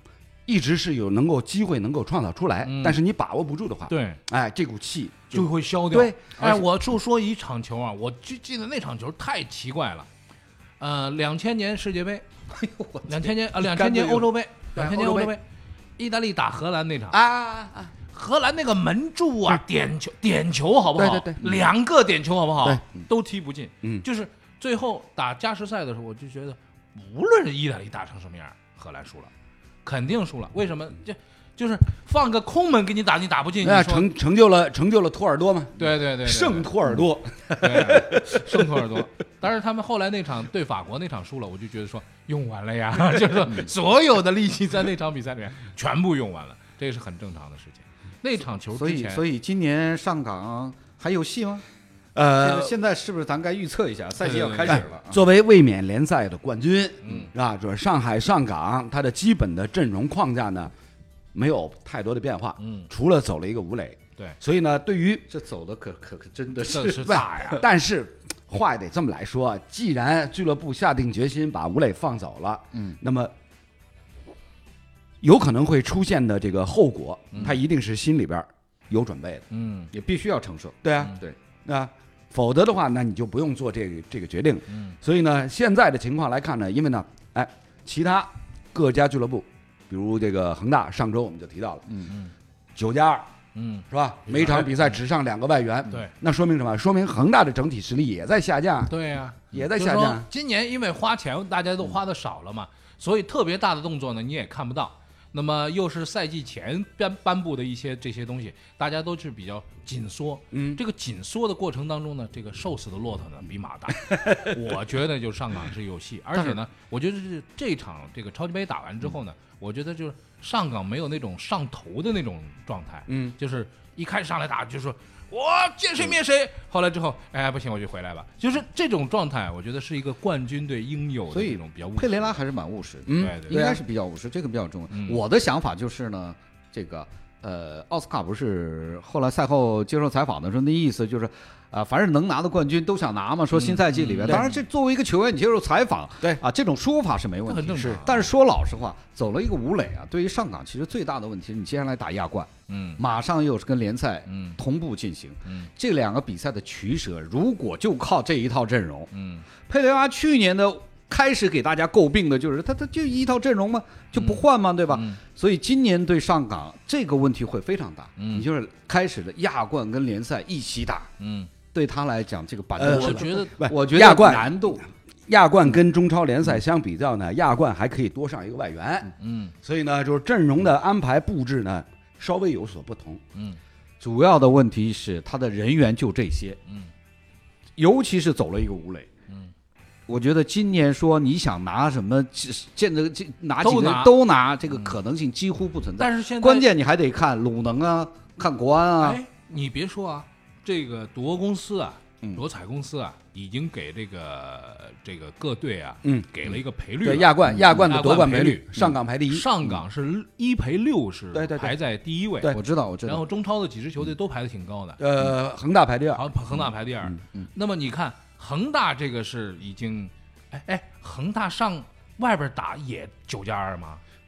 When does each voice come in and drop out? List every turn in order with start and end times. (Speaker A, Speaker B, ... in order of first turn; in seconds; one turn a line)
Speaker A: 0.5-6.6
Speaker B: 2.6-3.0
Speaker B: 3.9-4.2
Speaker B: 5.3-10.1
Speaker B: 10.8-12.2
Speaker C: 12.5-13.3
Speaker B: 13.1-15.4
Speaker A: 13.7-15.3
Speaker B: 16.0-17.2
Speaker A: 17.1-17.9
Speaker B: 18.1-29.3
Speaker A: 20.9-21.6
Speaker B: 29.8-34.1
Speaker A: 33.6-39.0
Speaker B: 35.8-36.7
Speaker B: 37.6-49.2
Speaker C: 48.7-51.6
Speaker A: 52.1-52.7
Speaker C: 52.3-55.2
Speaker B: 54.2-54.9
Speaker A: 54.6-60.7
Speaker B: 57.0-57.3
Speaker A: 61.3-65.2
Speaker B: 62.6-62.9
Speaker C: 65.3-67.6
Speaker B: 66.7-67.6
Speaker A: 67.0-73.3
Speaker A: 75.2-79.4
Speaker B: 77.3-77.6
Speaker B: 79.5-79.9
Speaker C: 79.9-81.3
Speaker A: 80.8-92.0
Speaker B: 84.7-84.9
Speaker B: 92.0-92.3
Speaker A: 92.8-93.3
Speaker B: 93.5-95.0
Speaker A: 93.9-98.9
Speaker B: 95.9-96.1
Speaker B: 98.9-132.4
Speaker A: 99.5-100.2
Speaker A: 110.5-110.8
Speaker A: 123.1-123.3
Speaker C: 131.3-159.1
Speaker A: 133.1-133.8
Speaker B: 133.2-133.6
Speaker B: 134.9-135.2
Speaker B: 143.5-144.6
Speaker B: 147.4-148.3
Speaker B: 152.7-153.0
Speaker B: 154.3-154.6
Speaker B: 159.1-159.4
Speaker C: 159.7-171.1
Speaker B: 164.1-165.2
Speaker B: 168.2-168.5
Speaker B: 171.2-171.5
Speaker C: 171.7-174.9
Speaker A: 172.8-174.6
Speaker B: 172.8-173.6
Speaker A: 175.3-179.1
Speaker B: 179.2-179.5
Speaker A: 179.6-183.2
Speaker B: 183.3-183.6
Speaker C: 184.0-186.6
Speaker C: 187.8-189.1
Speaker C: 190.1-199.2
Speaker B: 193.6-195.0
Speaker B: 196.0-196.7
Speaker B: 199.0-215.0
Speaker A: 206.0-206.3
Speaker A: 207.0-209.5
Speaker C: 207.5-207.9
Speaker A: 211.3-211.8
Speaker C: 212.5-213.2
Speaker A: 215.0-216.2
Speaker B: 216.1-224.0